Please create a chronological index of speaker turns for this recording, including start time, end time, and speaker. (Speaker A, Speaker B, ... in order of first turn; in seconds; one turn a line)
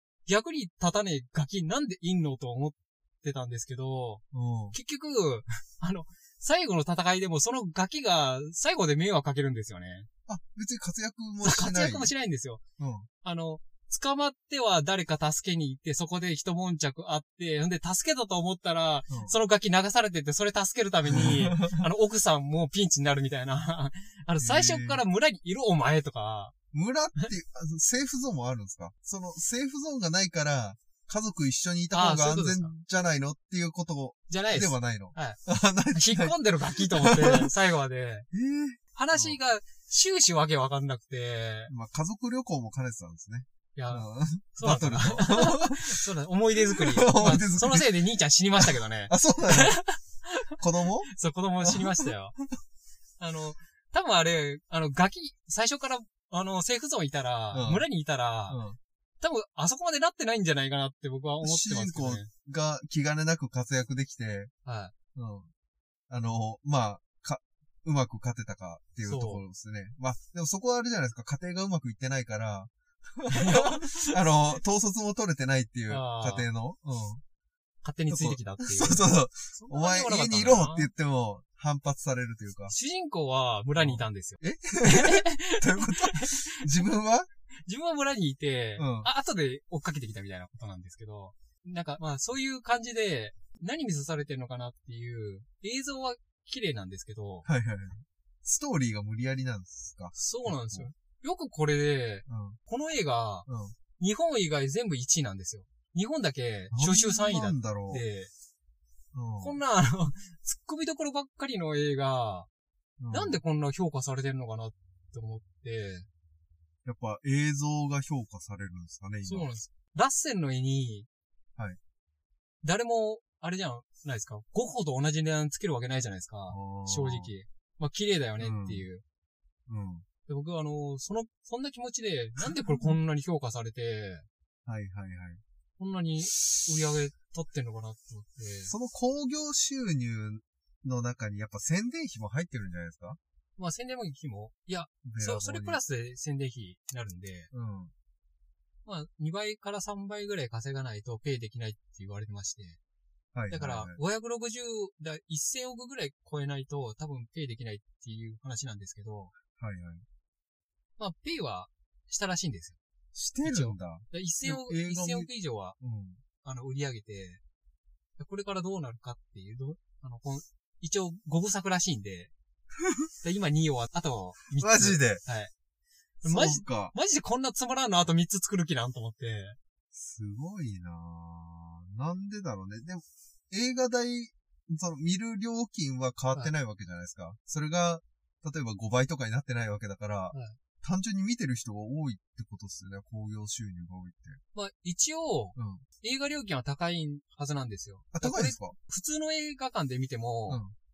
Speaker A: 0.2-10.1
Speaker B: 4.3-4.8
Speaker B: 10.3-12.1
Speaker A: 11.4-12.6
Speaker B: 12.8-13.1
Speaker A: 13.2-26.5
Speaker B: 19.1-19.3
Speaker B: 21.1-21.8
Speaker B: 24.4-25.0
Speaker B: 26.7-37.5
Speaker A: 31.9-32.7
Speaker A: 34.3-35.4
Speaker A: 35.9-38.3
Speaker B: 38.3-39.4
Speaker A: 38.9-41.7
Speaker B: 41.7-49.8
Speaker A: 43.7-50.6
Speaker B: 50.6-51.1
Speaker A: 51.1-52.4
Speaker B: 51.6-52.4
Speaker A: 53.2-58.6
Speaker B: 57.5-57.8
Speaker B: 58.5-58.8
Speaker A: 59.2-62.3
Speaker B: 61.4-64.5
Speaker A: 64.6-64.9
Speaker B: 65.1-65.5
Speaker B: 66.1-77.2
Speaker A: 69.0-69.4
Speaker A: 73.3-74.1
Speaker A: 75.9-76.5
Speaker A: 77.8-80.9
Speaker B: 78.1-82.7
Speaker A: 82.7-86.8
Speaker B: 83.8-87.3
Speaker A: 87.7-97.5
Speaker B: 88.8-89.1
Speaker B: 97.4-100.9
Speaker A: 100.1-108.3
Speaker B: 102.3-102.6
Speaker B: 103.5-103.7
Speaker B: 106.7-108.0
Speaker B: 109.1-109.6
Speaker A: 109.4-112.5
Speaker B: 113.0-113.4
Speaker A: 113.1-116.1
Speaker B: 116.8-119.5
Speaker A: 119.2-121.1
Speaker A: 122.6-129.0
Speaker B: 126.5-127.3
Speaker B: 128.4-128.8
Speaker B: 129.7-130.0
Speaker A: 130.3-134.3
Speaker B: 132.4-133.0
Speaker B: 134.7-135.4
Speaker A: 135.8-138.7
Speaker B: 138.7-143.2
Speaker A: 143.6-147.5
Speaker B: 145.0-145.8
Speaker B: 147.5-147.9
Speaker A: 148.8-152.8
Speaker B: 153.3-154.0
Speaker A: 153.5-159.3
Speaker B: 159.6-160.0
Speaker A: 161.0-162.8
Speaker B: 163.1-165.3
Speaker A: 163.4-165.8
Speaker B: 165.8-166.2
Speaker A: 166.4-167.4
Speaker A: 168.2-172.3
Speaker B: 172.8-173.1
Speaker A: 173.2-175.5
Speaker B: 174.6-175.2
Speaker A: 176.2-179.6
Speaker B: 176.2-176.9
Speaker B: 179.9-194.4
Speaker A: 190.3-190.6
Speaker A: 194.5-200.6
Speaker B: 195.6-195.8
Speaker B: 198.1-198.8
Speaker B: 200.5-200.7